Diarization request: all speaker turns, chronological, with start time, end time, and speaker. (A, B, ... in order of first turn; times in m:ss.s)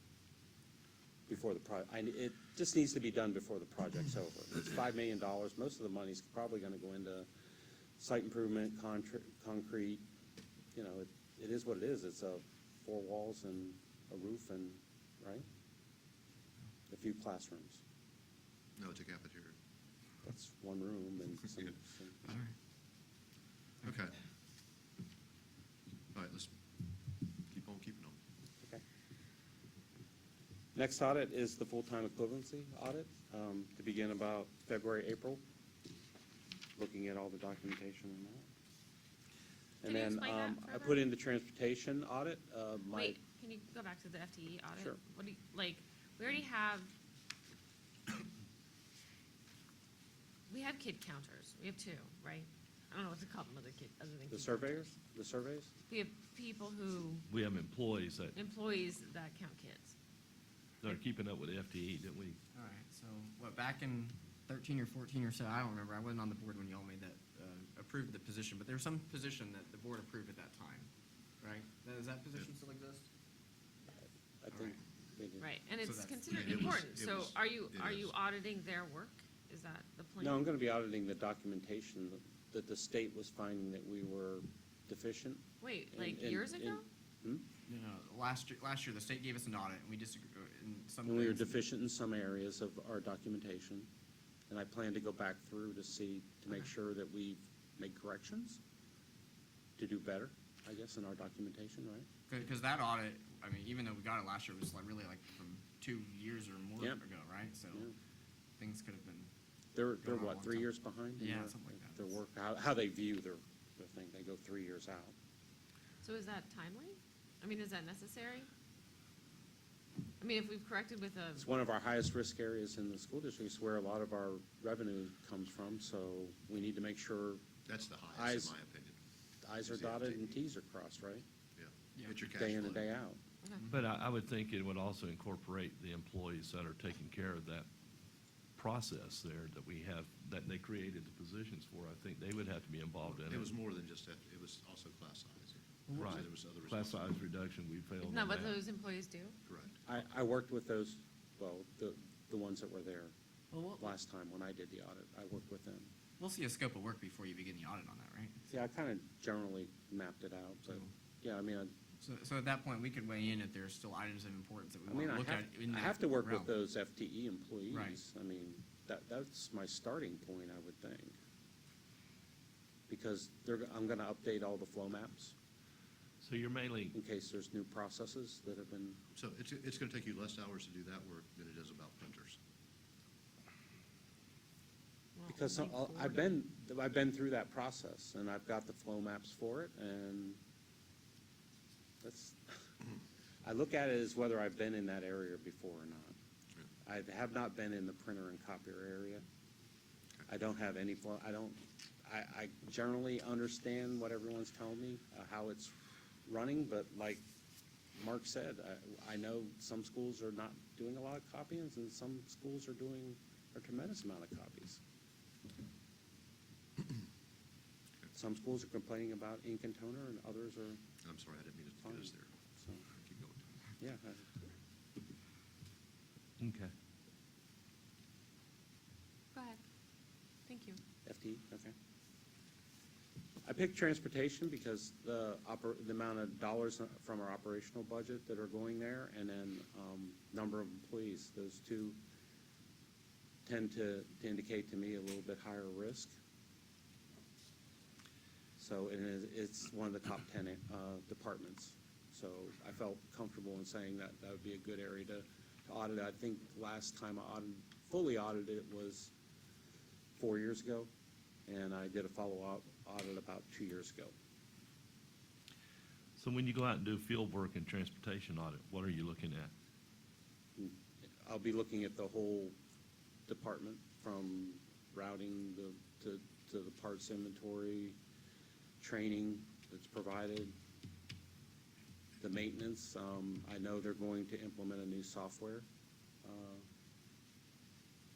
0:01.3-0:07.3 A
0:08.0-0:10.0 A
0:10.7-0:15.4 A
0:16.9-0:17.8 A
0:18.8-0:19.6 B
0:20.2-0:22.4 A
0:23.8-0:24.2 B
0:26.1-0:26.5 B
0:27.5-0:28.2 B
0:30.7-0:35.4 A
0:36.8-0:38.5 A
0:39.8-0:43.2 A
0:39.8-0:41.0 C
0:42.9-0:46.9 C
0:50.5-0:54.9 C
0:54.3-0:55.7 A
0:55.9-0:57.2 C
0:57.3-0:58.3 D
0:58.3-0:59.9 C
1:00.8-1:02.4 D
1:02.5-1:10.9 E
1:11.4-1:13.0 E
1:14.4-1:15.5 A
1:15.4-1:20.4 C
1:15.8-1:16.8 E
1:16.3-1:18.1 B
1:20.2-1:27.4 A
1:25.6-1:26.8 C
1:27.6-1:31.6 E
1:31.0-1:33.9 A
1:34.5-1:38.6 A
1:39.8-1:42.1 A
1:42.3-1:47.9 E
1:48.6-1:49.3 E
1:49.7-1:55.1 A
1:50.0-1:52.0 E
1:56.0-1:58.5 C
2:00.2-2:01.5 C
2:01.4-2:07.4 A
2:07.6-2:09.0 B
2:08.1-2:08.5 A
2:09.4-2:11.2 A
2:09.6-2:10.2 B
2:11.6-2:12.9 B
2:12.2-2:13.2 A
2:13.7-2:17.7 D
2:18.6-2:23.5 D
2:23.2-2:27.2 B
2:25.9-2:26.2 E
2:26.0-2:28.6 D
2:28.0-2:29.4 C
2:29.4-2:29.8 B
2:29.8-2:33.1 A
2:33.5-2:33.9 E
2:33.7-2:35.9 A
2:36.2-2:38.4 E
2:38.4-2:41.7 A
2:42.0-2:46.5 E
2:44.9-2:51.2 A
2:47.7-2:48.0 E
2:52.9-2:55.3 A
2:56.2-2:57.0 D
2:56.9-2:59.0 A
2:59.1-3:02.4 B
3:05.2-3:06.2 C
3:05.3-3:10.4 A
3:12.0-3:12.7 A
3:13.4-3:16.1 A
3:16.8-3:19.2 A
3:20.3-3:27.2 A
3:27.9-3:34.8 A
3:38.1-3:40.8 A
3:41.0-3:42.3 B
3:41.8-3:42.8 A
3:42.9-3:43.5 B
3:43.8-3:44.4 A
3:46.4-3:46.7 D
3:49.3-3:49.6 C
3:50.5-3:50.8 C
3:51.0-3:51.7 A
3:53.4-4:02.0 A
4:03.4-4:06.1 A
4:08.6-4:19.1 A
4:20.2-4:20.9 A
4:21.5-4:24.1 A
4:26.2-4:29.5 D
4:30.6-4:32.6 A
4:33.3-4:38.0 A
4:38.8-4:40.5 A
4:42.2-4:45.6 A
4:46.2-4:46.6 A